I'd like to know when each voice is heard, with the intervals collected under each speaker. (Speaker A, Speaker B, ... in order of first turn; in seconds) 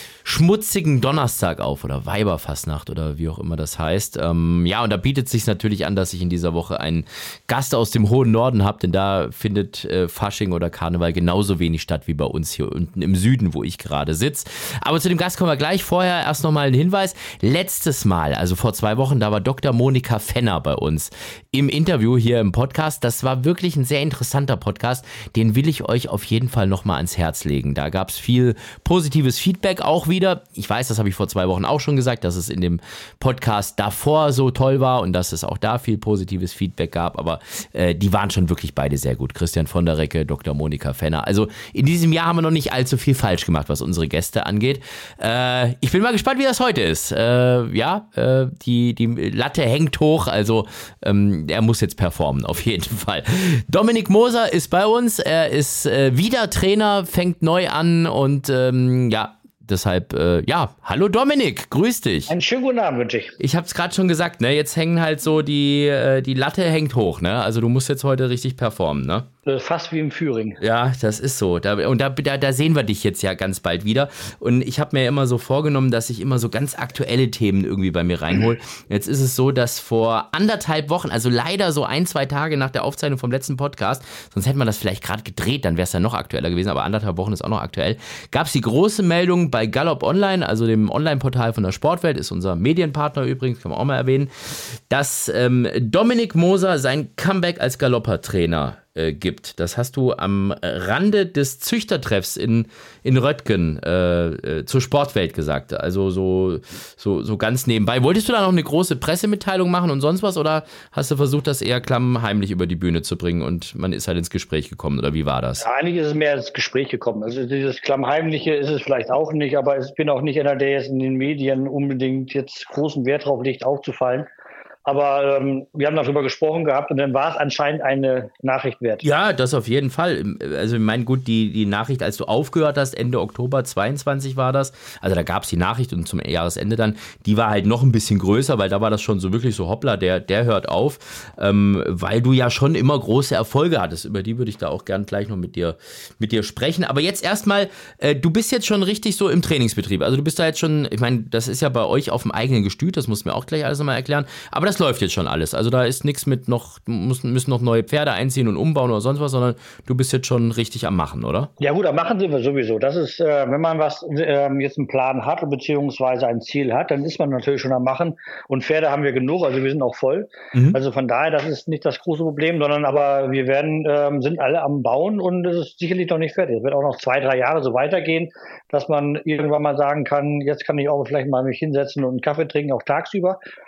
Speaker A: 0.2-62.3, 63.4-69.3, 70.6-115.6, 129.0-161.5
Speaker B: 62.3-63.4, 69.4-70.6, 115.6-124.3, 124.8-129.0, 161.6-183.4